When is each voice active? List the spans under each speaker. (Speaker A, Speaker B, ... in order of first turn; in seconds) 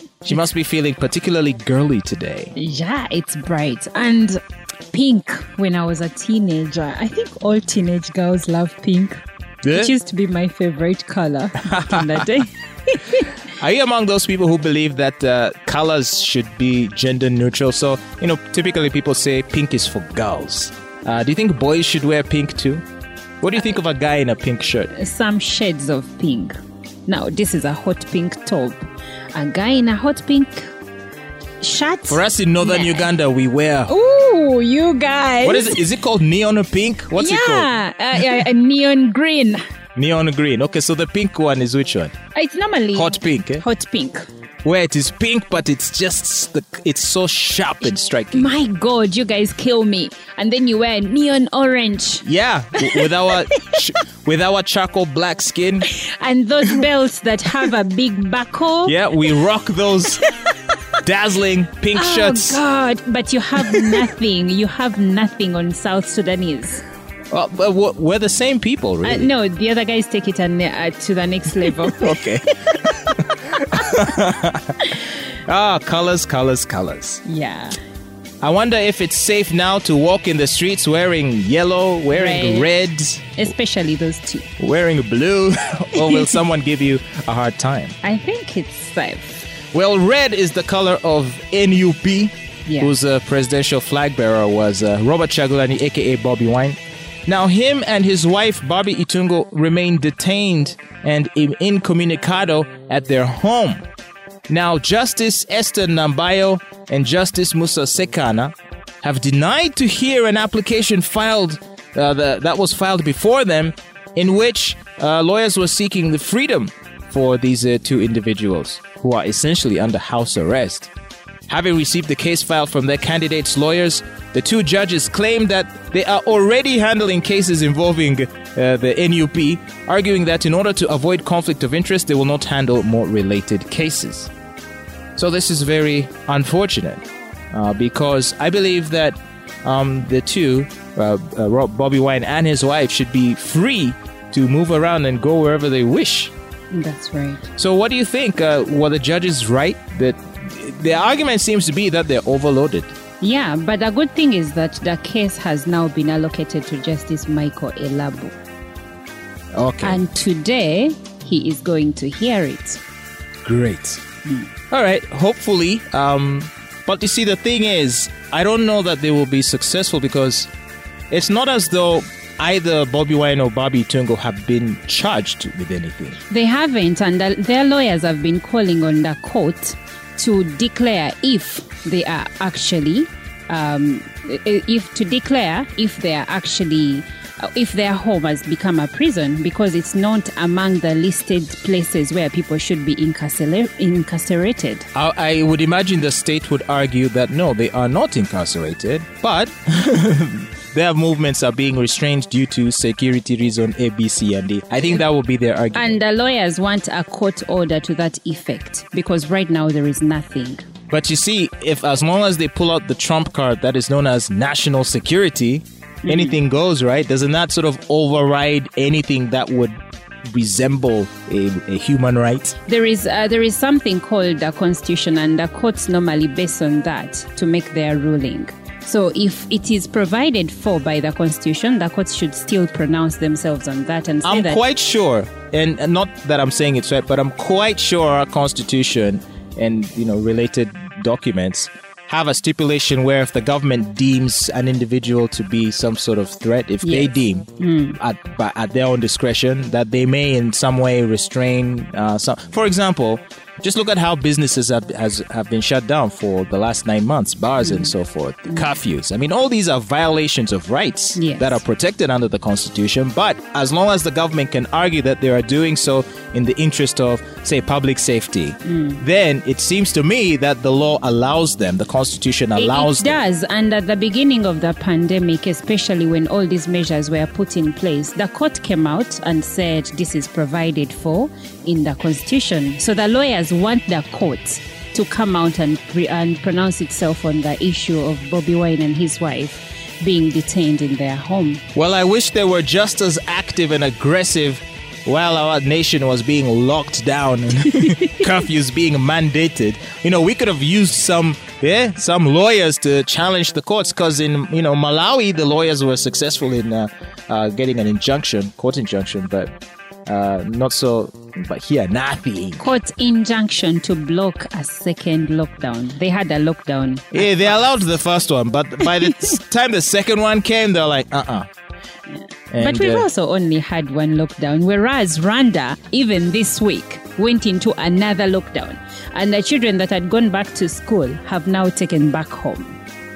Speaker A: 0.2-2.5, 9.6-9.9, 11.7-12.3, 13.5-22.8, 23.4-24.9, 32.1-33.9, 35.4-38.4, 40.0-42.1, 42.9-43.6, 44.6-48.5, 52.2-55.9, 58.9-60.2, 61.0-62.6, 63.6-64.1, 67.3-69.3, 71.8-77.2, 78.4-83.5, 84.6-87.9, 89.7-103.8, 104.5-120.9, 121.5-134.3, 135.2-137.0, 137.5-146.3, 147.6-152.9, 159.5-160.0, 163.4-164.0, 164.7-170.5, 171.1-176.2, 194.9-206.0, 210.9-219.8, 220.3-222.6, 234.2-273.2, 291.8-309.5, 310.1-312.7, 317.1-321.5, 322.5-323.1
Speaker B: 2.6-4.4, 4.9-13.3, 24.9-26.5, 27.1-30.7, 31.6-33.1, 33.9-35.8, 37.1-39.6, 42.3-44.2, 48.3-52.3, 52.8-53.4, 55.9-59.4, 60.1-60.4, 61.9-66.8, 69.0-72.2, 77.2-77.8, 82.1-82.8, 83.4-84.5, 86.0-86.4, 88.0-89.4, 92.7-92.9, 146.7-147.5, 153.2-158.4, 159.8-162.8, 176.3-194.9, 205.7-210.7, 216.1-216.4, 222.7-234.6, 246.8-248.0, 257.6-257.9, 261.1-261.6, 268.6-269.0, 272.6-291.6, 312.6-317.7, 318.8-319.4, 322.6-332.8